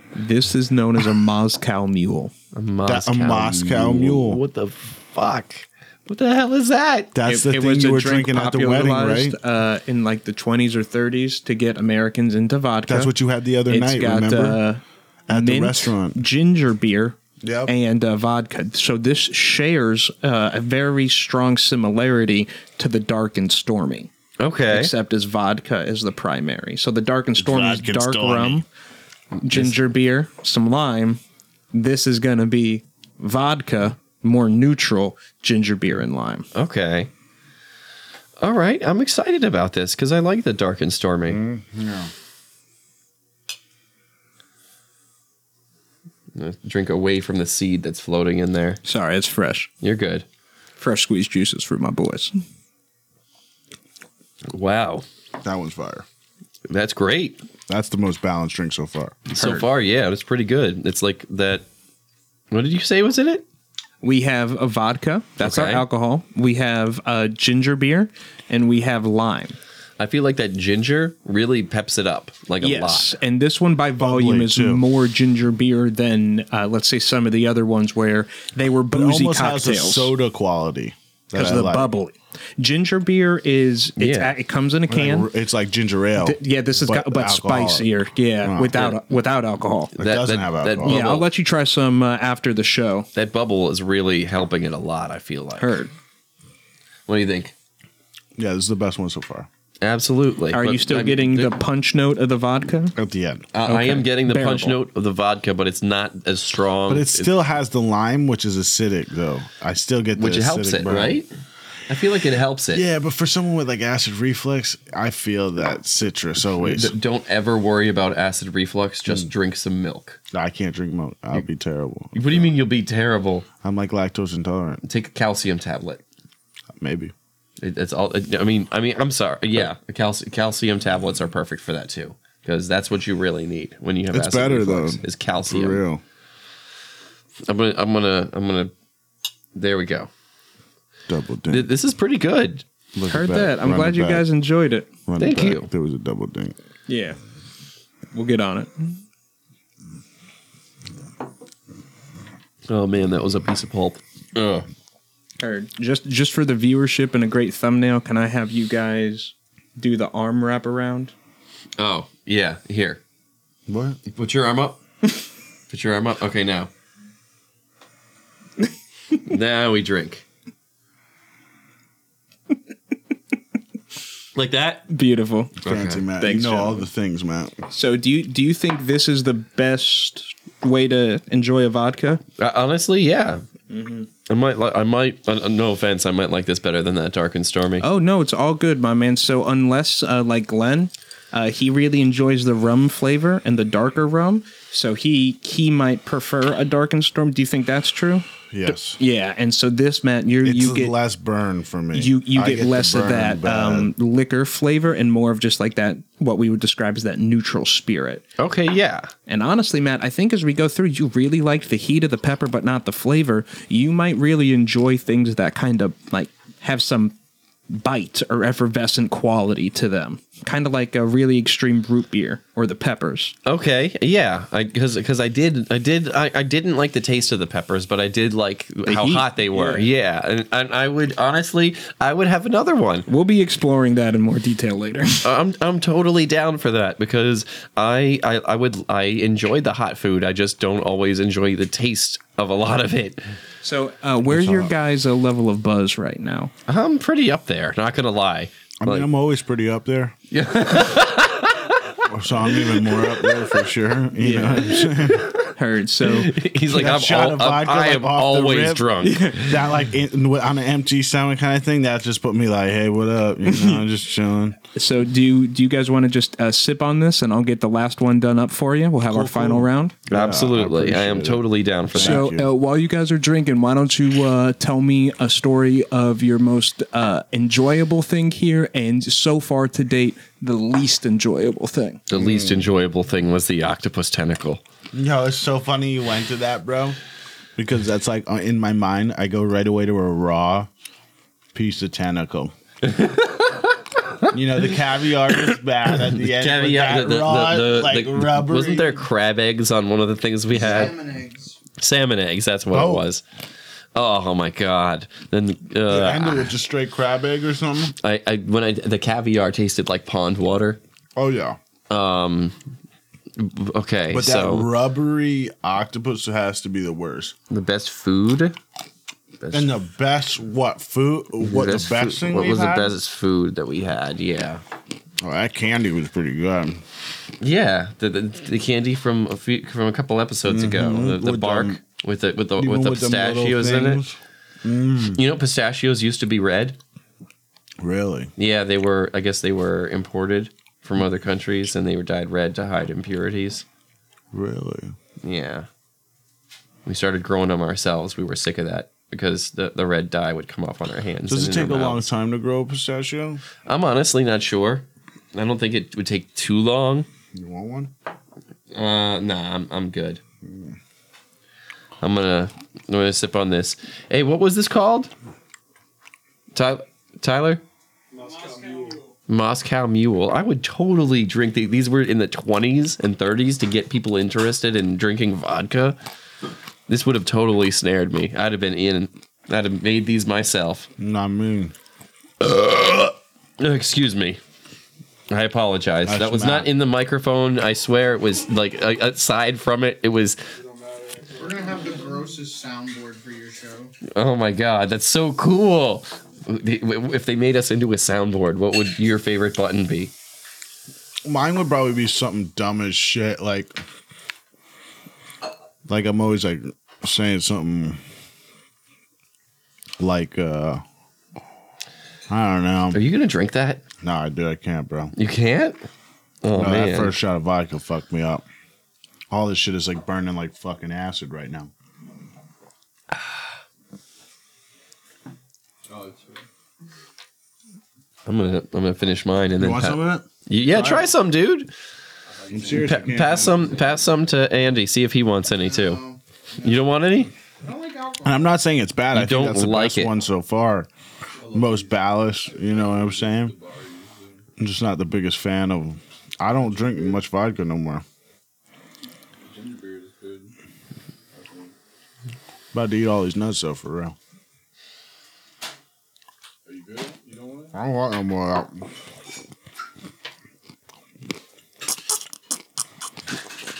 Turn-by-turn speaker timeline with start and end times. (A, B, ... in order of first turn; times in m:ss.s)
0:00.1-0:02.3 A
0:02.5-0:07.1 B
0:02.8-0:04.4 C
0:07.1-0:09.4 C
0:07.2-0:13.1 A
0:12.9-0:14.6 C
0:13.7-0:24.1 A
0:15.3-0:16.2 C
0:17.4-0:17.7 C
0:24.4-0:24.9 B
0:24.7-0:28.6 A
0:27.4-0:28.6 C
0:29.4-0:29.8 B
0:29.4-0:31.2 A
0:31.7-0:36.4 A
0:36.5-0:37.1 B
0:38.4-0:41.4 B
0:41.3-0:42.1 C
0:46.3-0:48.8 B
0:48.8-0:49.7 A
0:49.8-0:50.2 B
0:50.8-0:52.4 A
0:54.5-0:55.0 B
0:55.4-0:56.0 C
0:56.7-0:57.4 B
0:57.7-0:59.2 C
0:59.3-1:01.7 B
0:59.3-0:59.6 A
1:02.5-1:03.4 B
1:04.0-1:09.6 A
1:05.4-1:05.8 B
1:10.0-1:13.1 B
1:12.6-1:20.1 A
1:14.0-1:14.8 C
1:18.9-1:21.9 C
1:21.3-1:25.3 A
1:24.0-1:24.3 B
1:24.9-1:28.7 C
1:26.2-1:29.9 A
1:28.7-1:29.0 B
1:30.0-1:31.0 C
1:30.0-1:31.3 B
1:30.8-1:33.1 A
1:33.1-1:35.8 B
1:35.6-1:35.9 A
1:37.1-1:37.5 B
1:38.4-1:39.5 C
1:39.8-1:41.5 B
1:40.5-1:42.9 A
1:43.0-1:43.4 C
1:43.5-1:47.3 B
1:43.6-1:44.8 A
1:46.9-1:51.2 C
1:50.2-1:51.3 B
1:51.9-1:52.8 B
1:52.7-1:56.9 C
1:56.6-2:00.2 B
2:00.3-2:02.5 C
2:02.1-2:03.4 B
2:03.6-2:04.8 C
2:04.8-2:06.0 B
2:06.8-2:07.1 C
2:07.6-2:15.8 B
2:14.1-2:16.0 C
2:17.5-2:18.7 B
2:19.5-2:20.1 B
2:21.1-2:21.7 C
2:21.5-2:22.6 B
2:22.9-2:24.3 C
2:23.1-2:24.9 A
2:25.1-2:26.5 C
2:25.2-2:25.7 B
2:26.9-2:27.2 A
2:28.1-2:29.0 A
2:32.7-2:34.7 B
2:35.4-2:41.1 A
2:41.8-2:43.0 B
2:43.7-2:44.0 C
2:44.1-2:44.8 B
2:45.7-2:46.7 B
2:49.2-2:50.2 B
2:54.3-2:54.9 B
2:54.9-2:55.6 A
2:55.6-2:57.6 C
2:55.6-2:56.0 B
2:56.2-2:56.9 A
2:57.7-3:02.2 A
3:02.4-3:03.4 B
3:03.7-3:04.1 A
3:04.3-3:07.8 B
3:07.8-3:20.9 A
3:18.5-3:19.0 C
3:20.4-3:23.9 C
3:21.9-3:28.2 A
3:28.4-3:29.1 B
3:29.3-3:37.1 A
3:37.7-3:43.3 A
3:43.4-3:53.1 B
3:48.8-3:49.8 A
3:53.1-3:55.2 A
3:55.2-4:03.2 B
4:03.6-4:06.5 A
4:04.3-4:04.7 C
4:06.7-4:09.1 B
4:08.8-4:10.2 C
4:10.3-4:12.0 B
4:12.1-4:15.3 C
4:12.6-4:13.5 B
4:14.2-4:14.8 A
4:14.9-4:19.6 B
4:15.5-4:16.3 A
4:16.7-4:24.6 C
4:19.0-4:19.5 A
4:23.5-4:23.8 A
4:24.7-4:29.9 A
4:29.1-4:32.5 C
4:30.1-4:32.2 B
4:32.0-4:42.0 A
4:42.1-4:44.6 B
4:42.1-4:42.7 C
4:44.9-4:47.0 C
4:47.6-4:50.7 C
4:51.5-4:52.5 C
4:52.8-4:54.2 B
4:54.3-4:59.0 C
4:55.3-5:00.9 B
5:00.6-5:01.6 D
5:01.8-5:03.2 B
5:02.7-5:03.1 C
5:03.9-5:06.5 B
5:05.9-5:07.9 C
5:08.0-5:10.8 B
5:11.2-5:11.6 C
5:11.9-5:12.6 B
5:13.4-5:14.7 B
5:14.1-5:17.4 C
5:17.5-5:18.6 B
5:19.4-5:19.7 B
5:19.5-5:22.9 C
5:21.4-5:24.6 B
5:25.2-5:26.8 C
5:27.4-5:34.0 B
5:30.4-5:31.8 C
5:32.6-5:35.2 C
5:35.1-5:36.8 B
5:37.8-5:38.3 C
5:38.4-5:43.6 B
5:44.3-5:44.9 C
5:45.2-5:45.7 B
5:46.8-5:52.0 B
5:51.3-5:53.4 C
5:53.6-5:57.1 B
5:57.3-5:57.9 C
5:58.7-6:00.2 B
6:00.4-6:00.8 C
6:02.0-6:05.1 B
6:06.5-6:07.6 B
6:08.2-6:09.0 D
6:09.3-6:16.0 B
6:16.9-6:20.9 B
6:21.0-6:21.7 C
6:22.4-6:24.4 B
6:25.3-6:30.4 B
6:26.0-6:26.7 C
6:31.2-6:33.9 D
6:34.1-6:40.1 B
6:41.2-6:43.8 C
6:45.9-6:48.0 C
6:50.0-6:50.8 C
6:52.3-6:53.0 C
6:52.9-6:53.8 B
6:54.0-6:55.1 C
6:55.2-6:55.8 B
6:56.4-6:57.1 B
6:56.5-6:58.4 C
6:59.3-7:01.7 C
7:05.9-7:06.4 D
7:08.2-7:11.7 B
7:09.6-7:11.1 C
7:12.5-7:12.9 D
7:12.5-7:13.8 C
7:12.7-7:16.0 B
7:15.6-7:16.8 D
7:16.6-7:17.3 B
7:17.6-7:18.5 D
7:18.2-7:20.9 C
7:19.1-7:20.1 B
7:21.5-7:21.8 D
7:21.5-7:23.6 C
7:22.9-7:24.2 E
7:22.9-7:24.3 D
7:24.6-7:28.0 C
7:29.4-7:30.5 E
7:29.5-7:30.5 D
7:31.4-7:31.7 E
7:32.7-7:34.2 C
7:36.7-7:37.3 E
7:36.7-7:37.7 D
7:37.7-7:38.9 C